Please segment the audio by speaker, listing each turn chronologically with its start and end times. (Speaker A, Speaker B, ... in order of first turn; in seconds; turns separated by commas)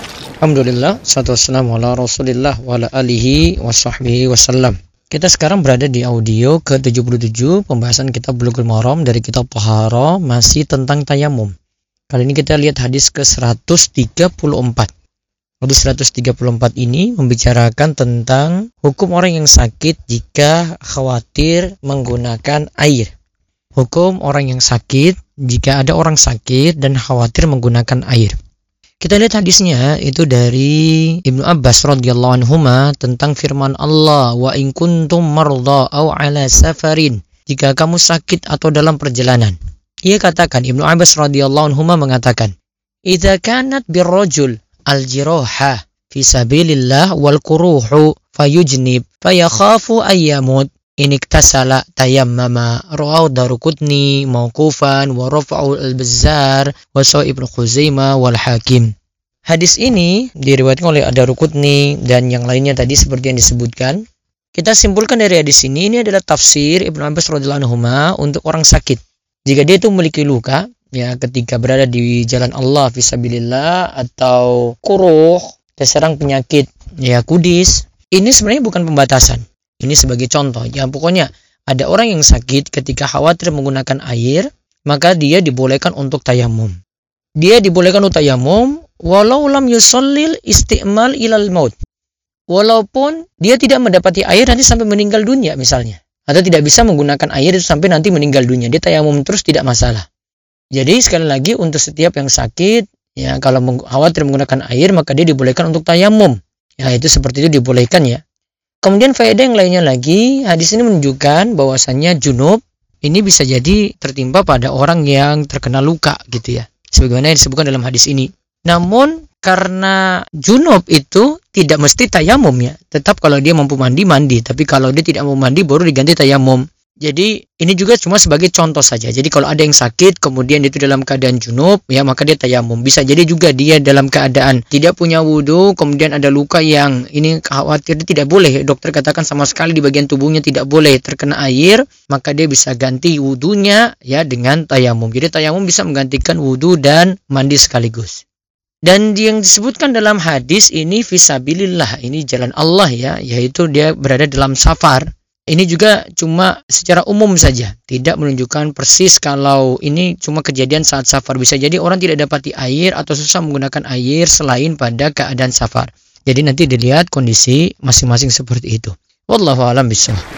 Speaker A: 0.4-11.5, Speaker A: 12.1-14.9, Speaker A: 15.6-23.1, Speaker A: 23.8-28.3, Speaker A: 29.0-42.5, Speaker A: 43.1-58.9, Speaker A: 59.5-64.0, Speaker A: 64.5-86.8, Speaker A: 87.4-91.7, Speaker A: 92.5-100.0, Speaker A: 100.7-108.2, Speaker A: 108.8-148.2, Speaker A: 148.8-170.2